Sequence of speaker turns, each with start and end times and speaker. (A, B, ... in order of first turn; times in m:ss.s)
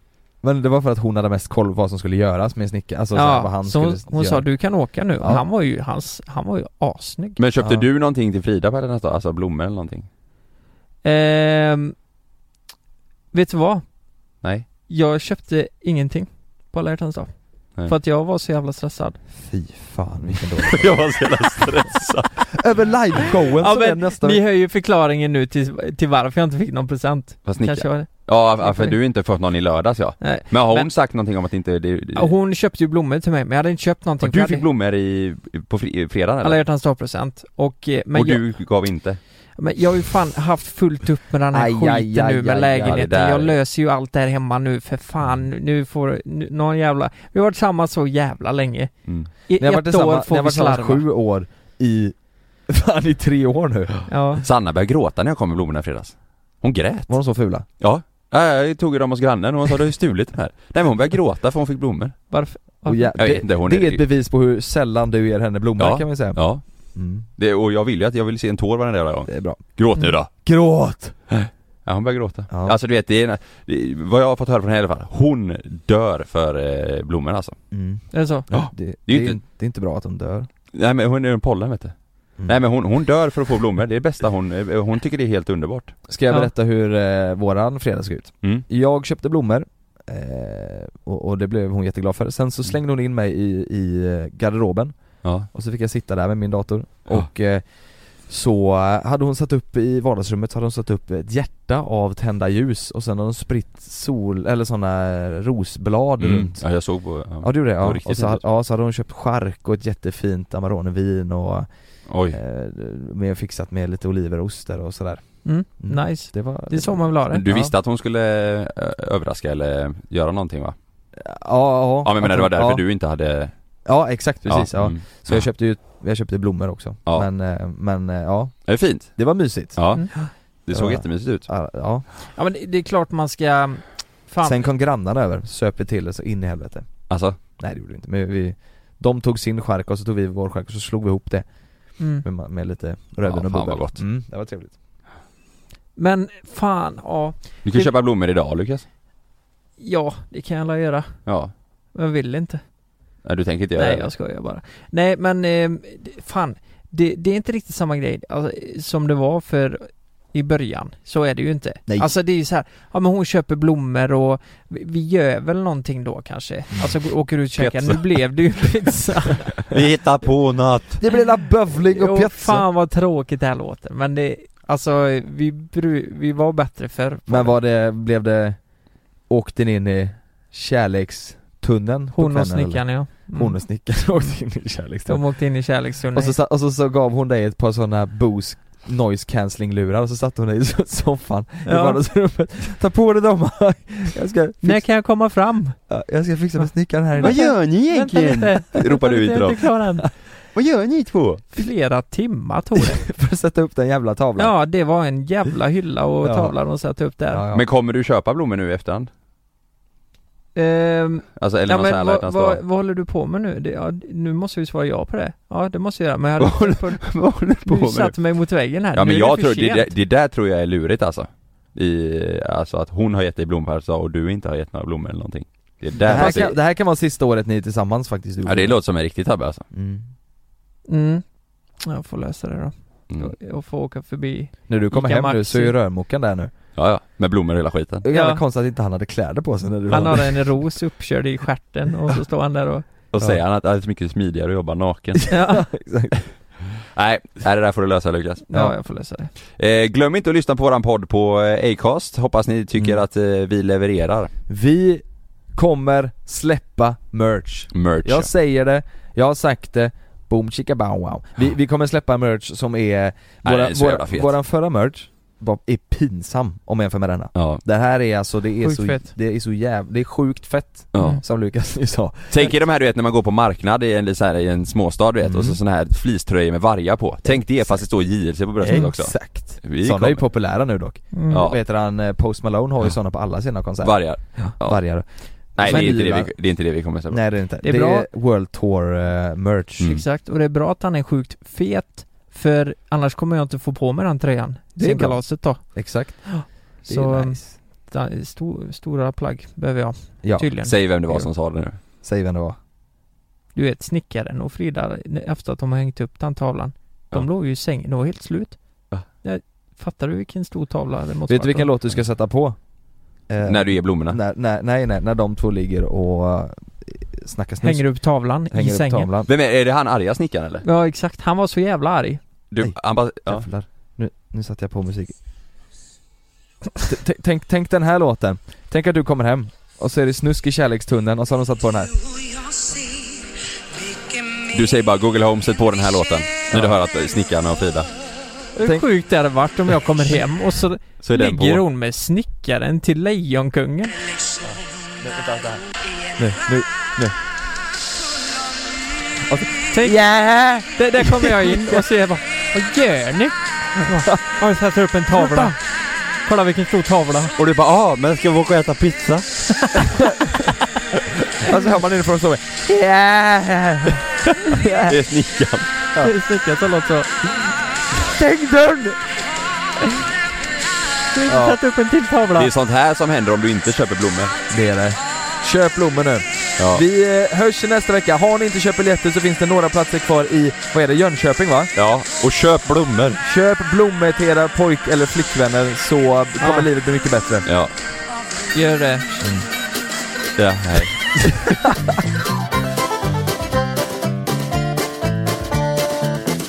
0:00.4-0:05.4 A
0:03.1-0:07.4 B
0:07.4-0:10.1 C
0:07.6-0:07.8 A
0:11.0-0:11.9 B
0:13.3-0:13.9 B
0:14.9-0:19.2 B
0:19.4-0:21.7 A
0:20.6-0:22.5 C
0:22.6-0:24.4 A
0:23.6-0:29.0 B
0:27.4-0:32.3 C
0:30.2-0:30.9 B
0:32.1-0:34.6 B
0:34.2-0:36.6 C
0:36.4-0:38.5 B
0:38.1-0:39.2 C
0:39.6-0:48.9 B
0:41.5-0:43.0 A
0:42.8-0:43.6 C
0:49.5-0:51.0 B
0:49.6-0:54.0 A
0:54.1-0:54.4 B
0:54.4-0:57.2 C
0:57.1-0:57.6 A
0:57.8-1:02.2 C
1:02.3-1:03.1 B
1:02.8-1:07.2 A
1:03.2-1:04.0 C
1:05.8-1:10.3 C
1:09.3-1:09.8 A
1:10.3-1:11.2 A
1:11.3-1:17.6 C
1:12.5-1:12.8 A
1:17.7-1:20.5 A
1:18.1-1:18.5 B
1:18.5-1:19.4 C
1:20.7-1:26.0 C
1:26.1-1:46.7 A
1:35.2-1:35.5 C
1:46.2-1:48.4 C
1:47.4-1:57.7 A
1:52.1-1:52.4 C
1:55.4-1:57.4 B
1:57.3-2:00.7 C
2:01.2-2:02.8 A
2:02.0-2:03.5 C
2:03.8-2:10.1 A
2:04.4-2:05.5 C
2:08.7-2:11.4 C
2:10.0-2:10.3 B
2:10.7-2:12.0 A
2:12.3-2:14.6 B
2:14.4-2:17.0 A
2:17.1-2:17.4 C
2:17.6-2:24.7 A
2:22.0-2:22.2 B
2:23.2-2:24.0 C
2:26.0-2:27.9 B
2:27.6-2:28.8 C
2:29.8-2:31.2 B
2:31.2-2:31.5 C
2:31.9-2:32.6 B
2:33.2-2:34.1 C
2:33.8-2:49.5 B
2:47.6-2:48.0 C
2:49.7-2:51.0 C
2:51.0-2:52.6 A
2:51.9-2:57.6 B
2:57.3-2:58.7 A
2:59.2-3:05.2 A
3:02.1-3:04.3 B
3:05.0-3:06.4 B
3:06.1-3:14.9 A
3:11.6-3:12.0 B
3:14.6-3:15.8 B
3:15.8-3:17.6 A
3:17.2-3:20.0 B
3:17.2-3:21.4 C
3:21.5-3:23.1 B
3:22.8-3:24.6 A
3:24.4-3:27.4 B
3:26.2-3:26.5 A
3:27.3-3:27.6 A
3:27.5-3:29.1 C
3:30.5-3:37.0 B
3:31.4-3:32.6 C
3:36.4-3:38.2 C
3:37.6-3:39.9 B
3:38.9-3:46.5 C
3:46.0-3:48.8 A
3:46.1-3:46.5 B
3:48.4-3:49.6 C
3:49.7-3:50.0 A
3:50.9-3:51.2 B
3:51.8-3:55.7 B
3:54.7-3:56.5 A
3:56.8-3:58.0 C
3:58.0-4:00.7 A
3:58.1-3:58.4 B
3:59.9-4:02.8 B
4:03.1-4:05.3 C
4:05.3-4:05.6 B
4:05.4-4:06.2 A
4:06.8-4:08.5 C
4:08.5-4:09.3 B
4:09.6-4:14.3 C
4:14.5-4:32.6 A
4:17.7-4:18.3 C
4:23.4-4:24.3 C
4:27.3-4:27.6 C
4:28.6-4:29.1 B
4:30.9-4:31.2 C
4:30.9-4:31.2 B
4:32.3-4:40.2 C
4:35.2-4:35.6 A
4:37.2-4:37.9 A
4:38.6-4:46.4 A
4:41.1-4:41.4 B
4:41.3-4:41.6 C
4:43.8-4:47.2 C
4:47.1-4:50.0 A
4:47.6-4:48.1 B
4:49.8-5:01.2 B
4:54.8-4:57.6 A
5:00.2-5:01.2 A
5:00.6-5:01.8 C
5:02.0-5:02.6 A
5:03.5-5:11.7 B
5:11.3-5:12.6 A
5:13.2-5:19.3 A
5:13.4-5:14.2 C
5:17.6-5:19.1 B
5:19.2-5:20.6 C
5:20.6-5:22.2 B
5:22.5-5:23.4 C
5:22.6-5:25.1 A
5:26.8-5:32.0 A
5:34.5-5:37.9 C
5:38.6-5:43.9 B
5:38.6-5:38.9 A
5:41.0-5:41.6 C
5:44.4-5:47.2 A
5:49.2-5:51.8 A
5:49.7-5:57.3 B
5:53.9-5:54.4 A
5:55.1-5:55.5 A
5:57.4-5:59.7 C
6:01.4-6:04.9 A
6:04.8-6:05.7 C
6:06.0-6:07.4 B
6:08.0-6:09.0 A
6:11.1-6:12.5 B
6:11.3-6:11.6 A
6:12.3-6:14.3 C
6:14.5-6:21.7 A
6:16.6-6:16.8 C
6:21.7-6:23.2 C
6:23.2-6:27.5 A
6:26.4-6:26.7 B
6:27.4-6:27.7 C
6:28.5-6:29.1 B
6:29.1-6:29.5 A
6:30.4-6:31.3 C